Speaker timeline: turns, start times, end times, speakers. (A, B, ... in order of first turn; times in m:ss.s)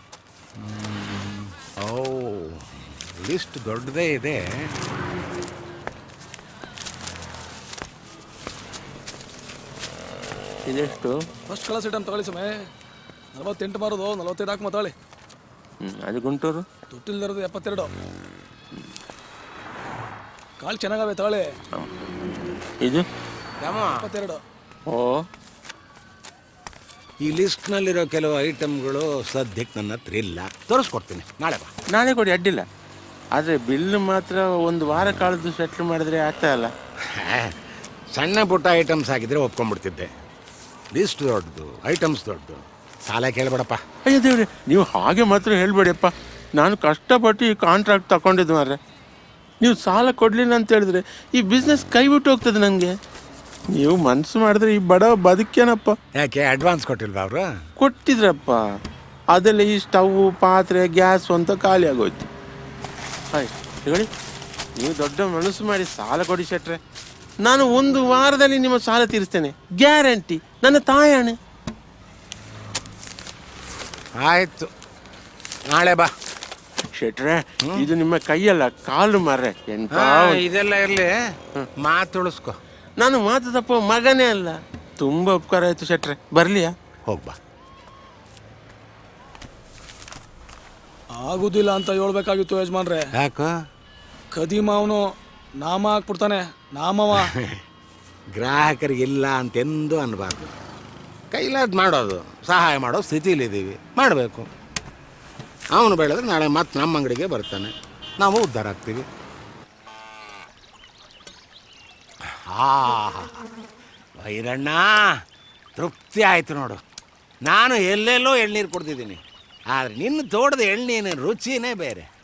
0:00.6-0:04.7 A
0:10.7-0:11.2 B
0:11.5-0:12.5 C
0:13.4-0:14.9 C
0:15.8-0:16.6 B
0:16.9-0:17.9 C
0:20.6-0:21.4 C
0:22.8-0:23.1 B
0:23.6-0:24.0 A
0:24.0-0:24.4 C
0:24.9-0:25.2 B
0:27.2-0:31.7 A
0:31.9-0:32.6 B
0:33.4-0:36.7 B
0:37.1-0:37.6 A
0:38.1-0:40.1 A
0:40.9-0:43.8 A
0:44.1-0:48.8 B
0:49.6-0:52.9 B
0:53.8-0:56.0 B
0:56.1-0:57.4 A
0:57.8-0:58.6 B
0:59.3-1:02.2 B
1:03.3-1:04.1 B
1:04.8-1:06.8 B
1:07.4-1:11.3 B
1:14.2-1:14.7 A
1:15.7-1:16.1 A
1:17.0-1:20.4 B
1:20.0-1:21.1 A
1:21.8-1:22.6 A
1:23.0-1:26.7 B
1:27.1-1:27.4 A
1:31.2-1:33.0 C
1:33.2-1:33.5 A
1:34.3-1:35.0 C
1:35.6-1:37.3 C
1:37.3-1:37.6 A
1:38.3-1:40.4 A
1:41.3-1:44.5 A
1:45.7-1:49.0 A
1:52.3-1:53.3 A
1:54.2-1:55.1 A
1:55.8-1:56.8 A
1:57.4-2:02.1 A